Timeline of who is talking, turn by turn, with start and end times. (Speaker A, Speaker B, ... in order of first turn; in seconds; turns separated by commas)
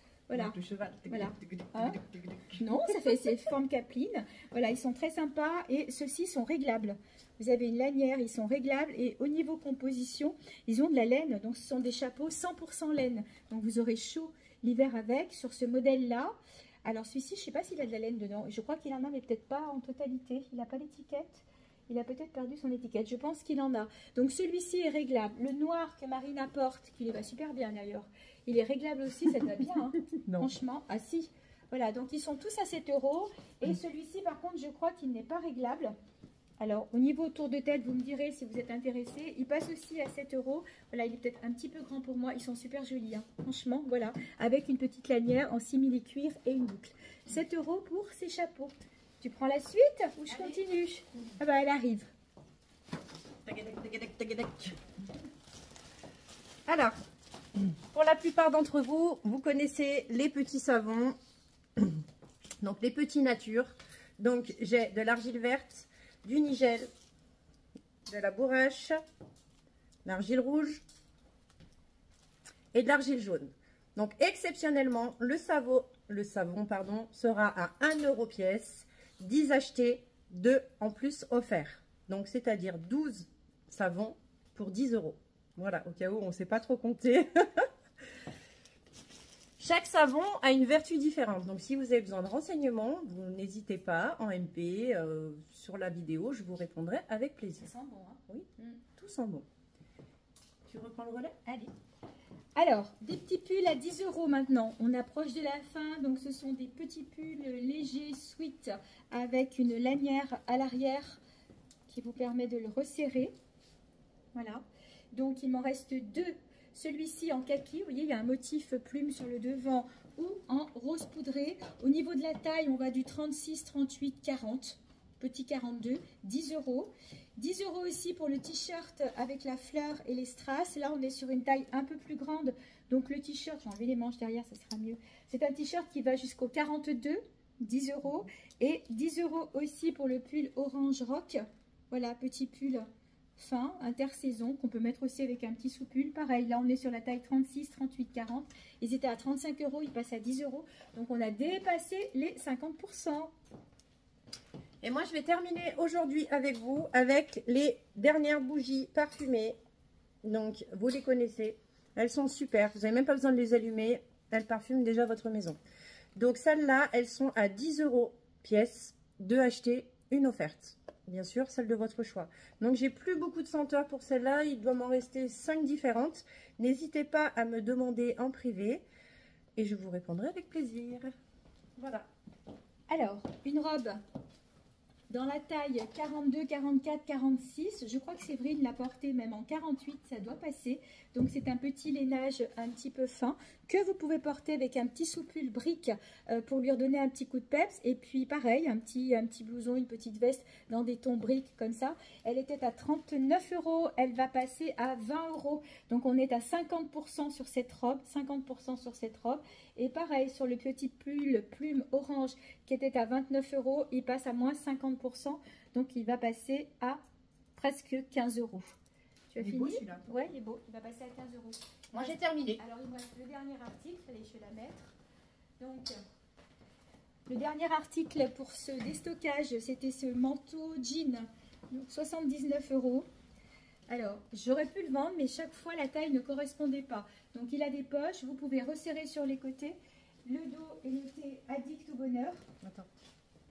Speaker A: 0.3-0.6, Speaker B: 0.3-2.7, Speaker A: 1.1-2.0, Speaker A: 2.6-35.9, Speaker B: 30.2-30.5, Speaker A: 36.6-52.1, Speaker B: 50.3-50.6, Speaker B: 53.5-54.8, Speaker B: 56.7-57.0, Speaker B: 57.6-61.2, Speaker B: 61.8-62.0, Speaker B: 62.6-66.9, Speaker B: 68.1-69.0, Speaker B: 70.0-70.8, Speaker B: 72.7-87.7, Speaker B: 89.6-97.7, Speaker A: 97.6-98.8, Speaker B: 98.3-99.5, Speaker B: 100.7-101.4, Speaker A: 101.5-101.7, Speaker A: 102.6-111.2, Speaker A: 111.9-113.3, Speaker A: 114.3-153.3, Speaker B: 154.8-159.6, Speaker B: 160.2-165.6, Speaker B: 166.2-178.8, Speaker B: 179.6-181.1, Speaker B: 181.8-182.1, Speaker A: 182.9-184.0, Speaker A: 185.1-217.0, Speaker A: 217.6-218.8, Speaker A: 219.3-224.9, Speaker B: 219.4-220.1, Speaker B: 221.9-222.6, Speaker A: 225.6-226.0, Speaker A: 227.3-233.1, Speaker A: 233.9-242.4, Speaker B: 242.6-242.9